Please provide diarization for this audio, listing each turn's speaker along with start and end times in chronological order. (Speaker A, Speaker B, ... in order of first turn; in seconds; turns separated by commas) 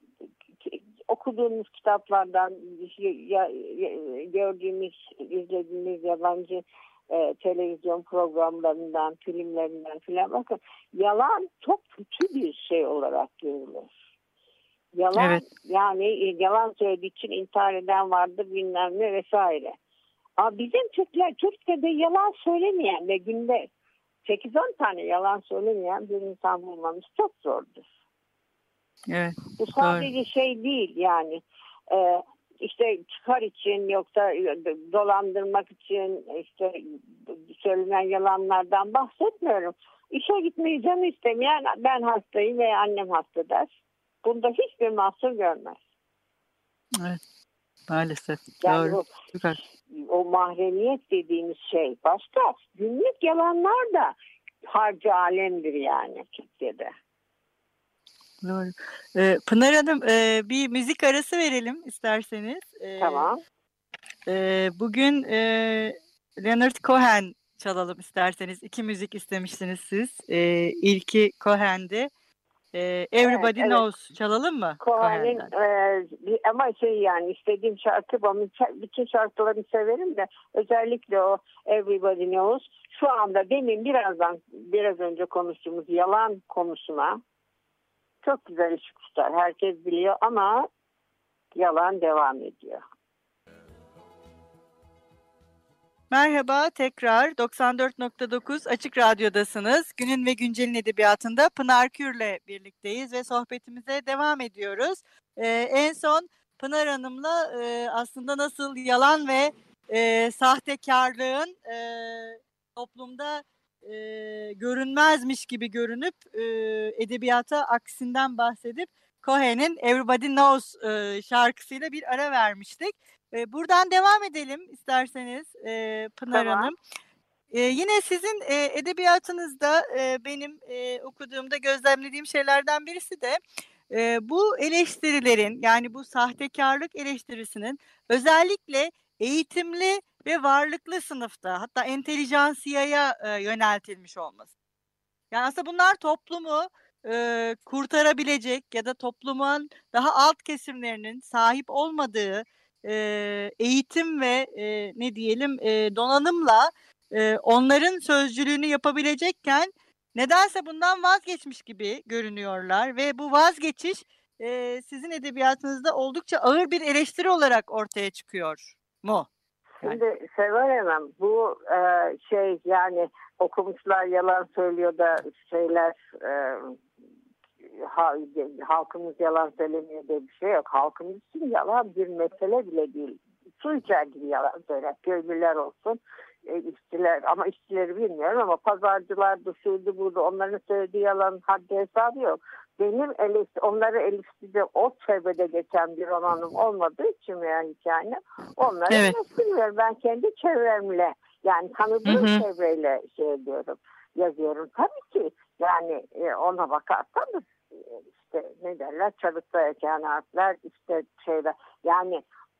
Speaker A: 0.6-13.9, Speaker A: 14.9-19.7, Speaker B: 15.1-15.4, Speaker A: 20.4-23.7, Speaker A: 24.2-27.9, Speaker B: 29.1-30.1, Speaker A: 29.6-43.7, Speaker A: 44.2-45.8, Speaker B: 47.9-49.6, Speaker A: 48.6-49.1, Speaker A: 49.9-54.1, Speaker A: 54.7-56.9, Speaker B: 58.4-63.3, Speaker A: 63.0-63.4, Speaker B: 64.3-72.1, Speaker B: 72.7-75.5, Speaker A: 73.2-73.8, Speaker A: 74.8-87.2, Speaker A: 88.2-90.7, Speaker A: 91.5-92.8, Speaker B: 96.1-126.8, Speaker A: 126.3-126.7, Speaker B: 127.5-133.4, Speaker B: 133.9-144.5, Speaker B: 145.3-169.3, Speaker A: 169.8-176.8, Speaker A: 177.7-212.2, Speaker B: 198.9-199.2, Speaker B: 202.1-202.4